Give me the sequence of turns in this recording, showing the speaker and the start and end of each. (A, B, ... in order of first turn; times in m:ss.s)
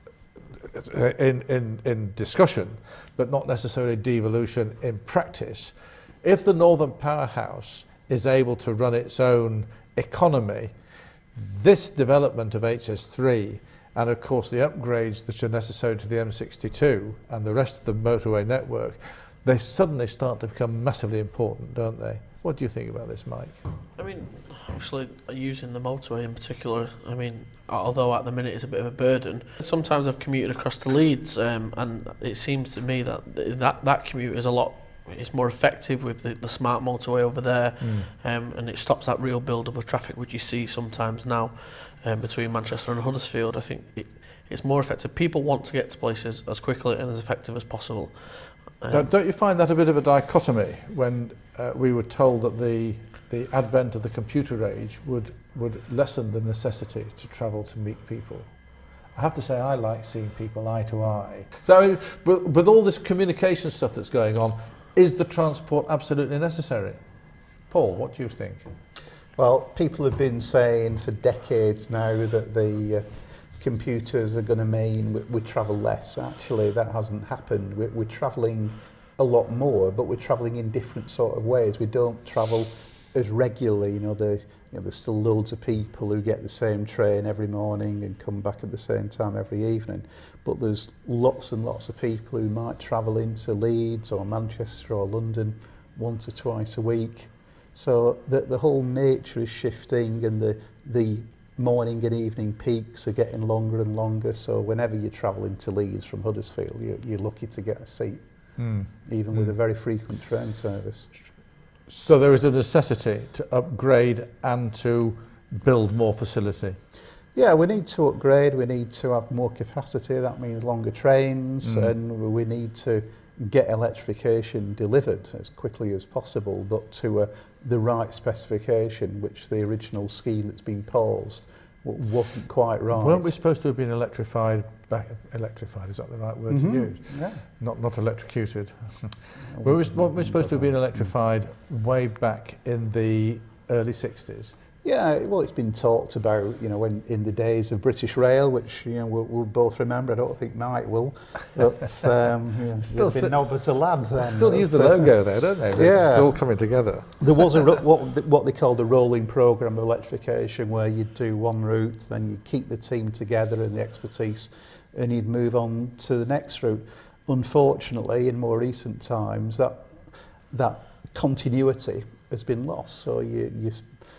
0:00.6-0:10.8 A
0:11.3-0:23.6 A
0:24.0-0:49.1 B
0:37.8-0:38.1 A
0:48.9-0:58.6 A
0:59.1-1:07.0 A
1:07.7-1:08.7 A
1:09.4-1:51.1 C
1:48.6-1:49.5 A
1:51.9-1:56.8 A
1:57.3-2:13.3 C
2:01.6-2:01.9 A
2:12.9-2:24.6 A
2:16.5-2:17.4 C
2:19.4-2:21.1 C
2:24.8-2:36.6 C
2:32.8-2:33.4 A
2:34.1-2:37.7 A
2:37.2-2:53.9 C